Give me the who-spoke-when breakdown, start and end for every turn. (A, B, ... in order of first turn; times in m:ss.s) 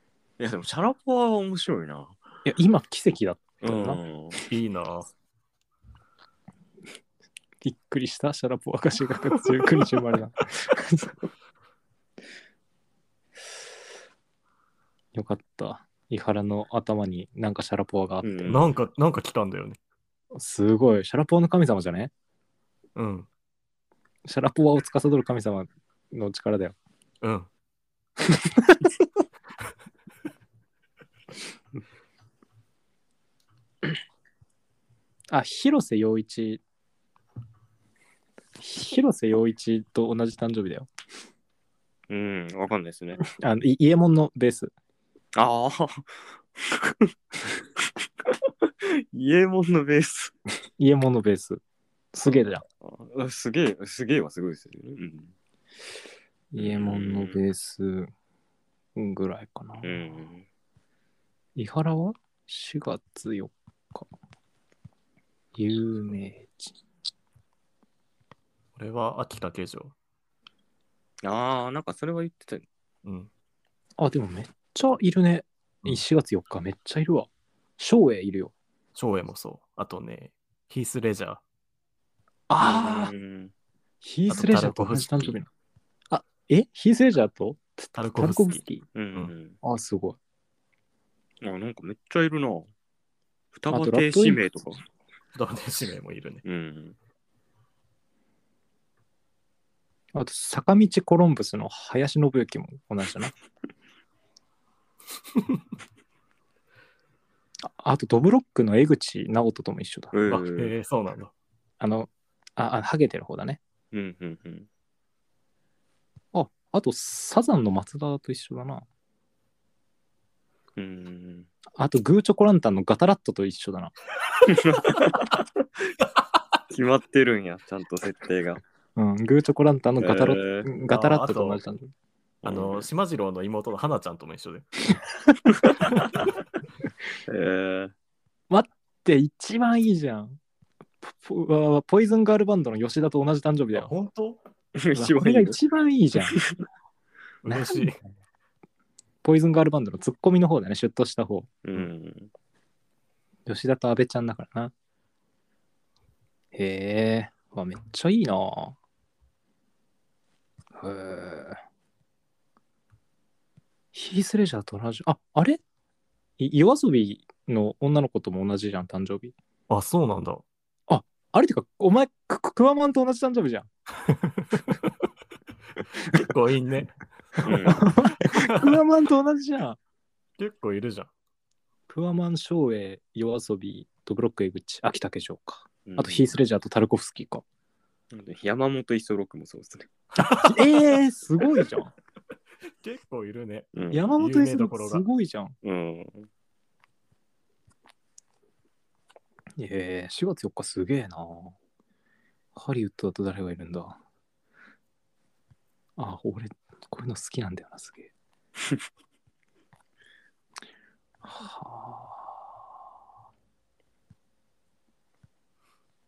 0:00.4-0:02.2 A
0:02.4-0:04.0 B
0:03.6-0:04.4 A
0:04.5-0:05.1 C
0:07.6-0:11.2 B
0:15.1-0:18.3 B
0:18.2-0:18.8 A
0:18.4-0:19.8 C
0:20.3-0:22.1 B
0:23.0-0:23.3 C
0:24.3-0:26.8 B
0:27.2-0:27.5 C
0:28.3-0:28.9 B
0:35.3-0:36.6 B
0:38.6-0:40.9 B
0:42.1-0:43.2 A
0:43.2-0:44.7 B
0:45.4-0:50.4 A
0:50.8-0:51.6 B
0:52.1-0:52.6 B
0:52.3-0:55.3 A
0:56.5-0:58.1 B
0:56.6-0:57.4 A
0:59.0-1:00.2 B
0:59.8-1:00.4 A
1:01.6-1:04.1 B
1:05.6-1:06.8 B
1:08.8-1:09.9 C
1:11.2-1:12.7 A
1:13.0-1:13.3 C
1:14.0-1:18.5 B
1:19.0-1:21.4 C
1:22.5-1:23.1 B
1:22.6-1:23.5 A
1:24.0-1:25.5 B
1:24.3-1:25.4 C
1:26.1-1:28.8 B
1:28.0-1:28.6 C
1:29.0-1:29.6 A
1:29.6-1:30.2 B
1:31.4-1:32.7 A
1:33.5-1:34.8 A
1:33.7-1:34.4 B
1:35.4-1:36.4 C
1:36.4-1:37.0 A
1:40.1-1:43.3 B
1:47.7-1:50.1 B
1:50.1-1:50.7 A
1:50.3-1:51.3 C
1:51.8-1:53.6 B
1:53.9-1:54.7 A
1:56.3-1:58.8 B
2:00.8-2:01.5 A
2:01.8-2:03.9 B
2:04.4-2:05.5 A
2:06.7-2:08.6 A
2:09.0-2:11.9 B
2:10.0-2:10.7 A
2:10.9-2:11.6 C
2:12.4-2:12.9 A
2:12.4-2:14.7 C
2:15.6-2:16.3 A
2:17.3-2:17.9 A
2:18.5-2:20.4 B
2:21.0-2:23.9 B
2:23.7-2:24.4 C
2:24.7-2:25.6 A
2:25.0-2:26.4 B
2:26.3-2:26.6 A
2:27.4-2:28.0 C
2:27.5-2:28.0 B
2:29.2-2:31.5 B
2:31.6-2:32.3 A
2:33.5-2:34.7 B
2:36.5-2:38.8 B
2:40.8-2:41.6 B
2:43.9-2:45.6 B
2:46.4-2:49.3 B
2:49.7-2:50.4 C
2:50.9-2:53.7 B
2:54.1-2:54.9 C
2:56.1-2:57.0 C
2:57.4-2:57.9 A
2:57.6-2:59.8 B
2:58.4-2:58.8 C
3:00.4-3:01.1 C
3:01.9-3:07.4 B
3:05.9-3:06.3 A
3:08.1-3:09.9 A
3:10.2-3:11.9 B
3:10.2-3:10.9 C
3:12.8-3:15.0 C
3:13.7-3:14.1 A
3:13.9-3:15.6 B
3:15.6-3:16.3 A
3:19.6-3:21.6 B
3:22.6-3:24.0 B
3:26.0-3:28.1 B
3:31.2-3:32.3 B